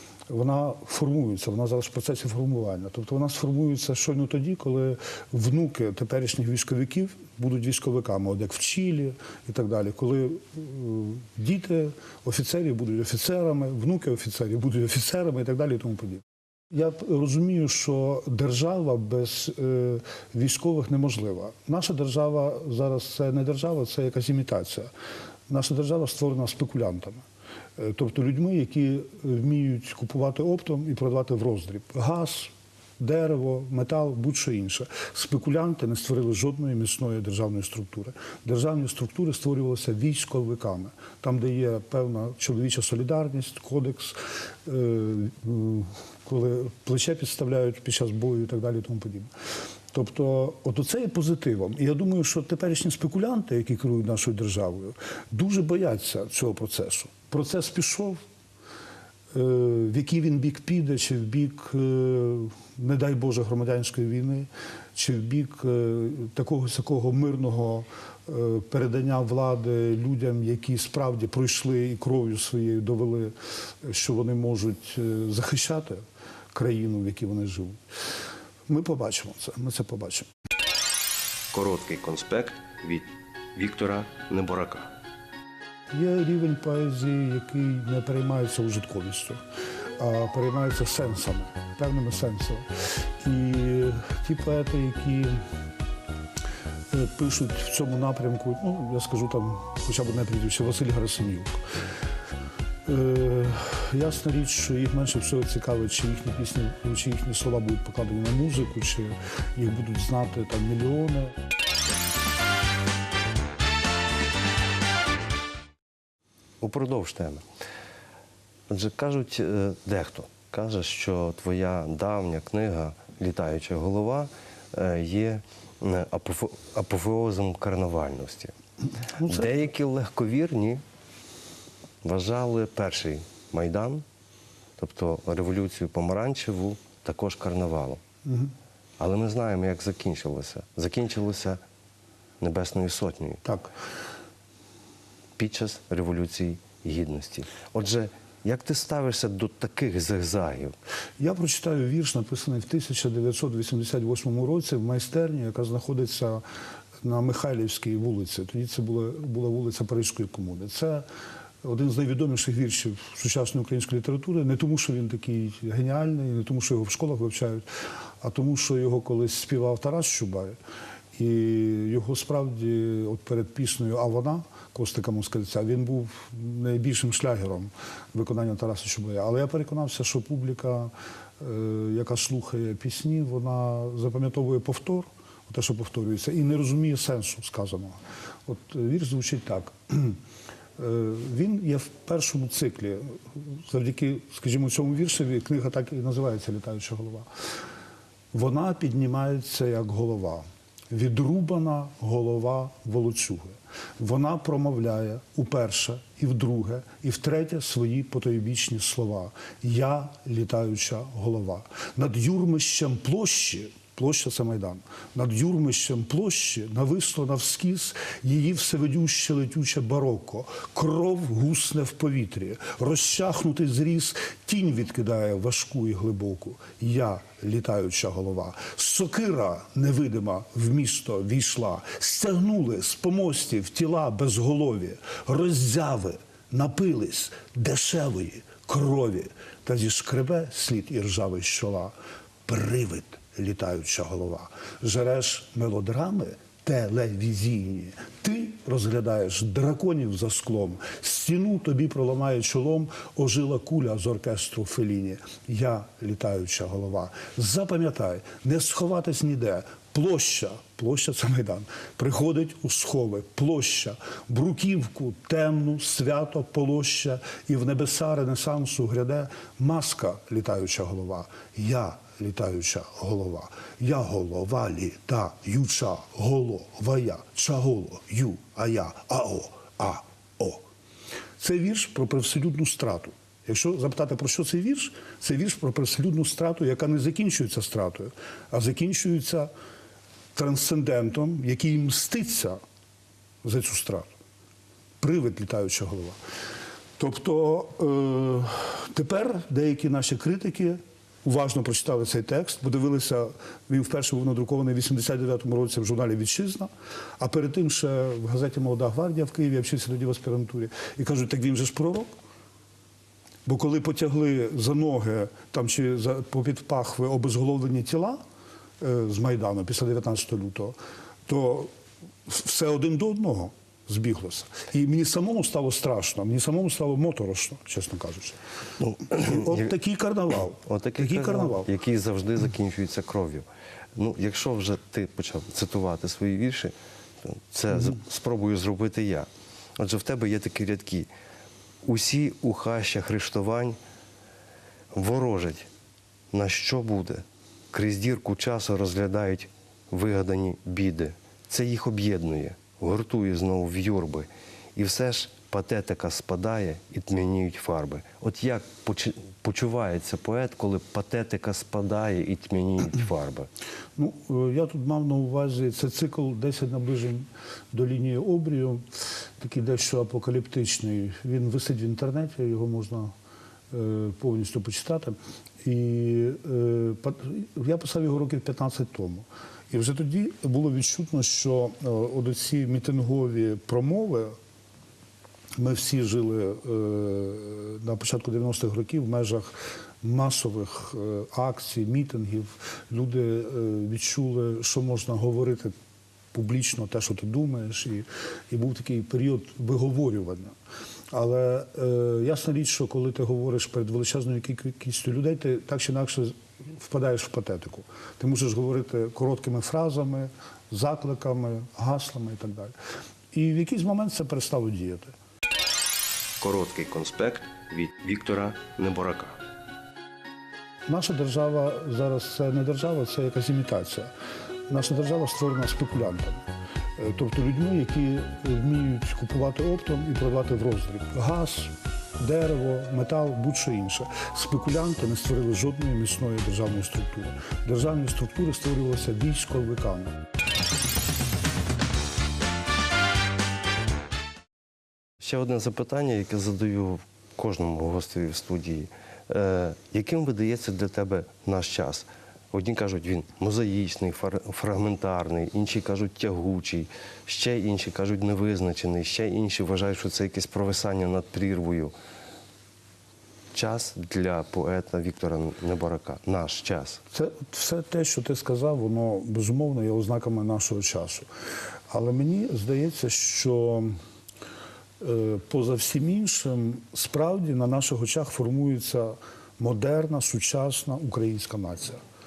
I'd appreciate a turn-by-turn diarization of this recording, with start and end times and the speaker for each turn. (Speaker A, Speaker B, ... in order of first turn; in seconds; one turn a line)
Speaker A: 0.3-24.9
Speaker A: 25.5-27.2
Speaker A: 27.8-49.3
Speaker A: 49.9-58.2
Speaker A: 59.3-73.3
Speaker A: 73.8-76.0
Speaker A: 76.5-77.8
Speaker A: 78.7-80.3
Speaker B: 81.5-84.9
Speaker A: 85.9-89.4
Speaker A: 90.0-92.7
Speaker A: 93.2-95.4
Speaker A: 96.9-101.6
Speaker A: 102.8-111.3
Speaker B: 116.6-117.4
Speaker B: 118.7-128.5
Speaker A: 129.0-129.5
Speaker B: 129.2-130.8
Speaker B: 132.0-134.0
Speaker B: 134.8-138.0
Speaker A: 138.2-138.5
Speaker B: 139.0-141.6
Speaker B: 142.4-143.4
Speaker A: 143.4-143.7
Speaker B: 145.4-150.7
Speaker A: 151.2-156.4
Speaker A: 157.0-161.1
Speaker A: 161.6-167.7
Speaker A: 168.2-170.6
Speaker A: 171.2-190.2
Speaker A: 190.8-197.3
Speaker A: 198.3-241.9
Speaker A: 242.4-280.6
Speaker A: 281.4-289.5
Speaker A: 290.3-292.6
Speaker A: 293.4-294.1
Speaker A: 295.0-296.2
Speaker A: 297.0-312.1
Speaker A: 313.4-318.2
Speaker A: 318.8-321.7
Speaker A: 322.2-328.4
Speaker B: 328.8-329.6
Speaker A: 329.1-331.7
Speaker B: 330.6-341.1
Speaker B: 341.8-343.8
Speaker B: 344.9-345.7
Speaker B: 346.3-363.5
Speaker A: 364.0-368.8
Speaker A: 369.4-373.1
Speaker A: 373.7-384.3
Speaker A: 385.6-395.7
Speaker A: 396.3-400.5
Speaker A: 401.1-412.7
Speaker A: 413.3-415.1
Speaker B: 416.4-419.4
Speaker A: 420.9-424.1
Speaker A: 424.7-426.4
Speaker A: 427.0-440.2
Speaker B: 445.2-461.9
Speaker B: 463.5-467.0
Speaker A: 467.1-471.2
Speaker A: 471.9-473.9
Speaker A: 475.0-482.0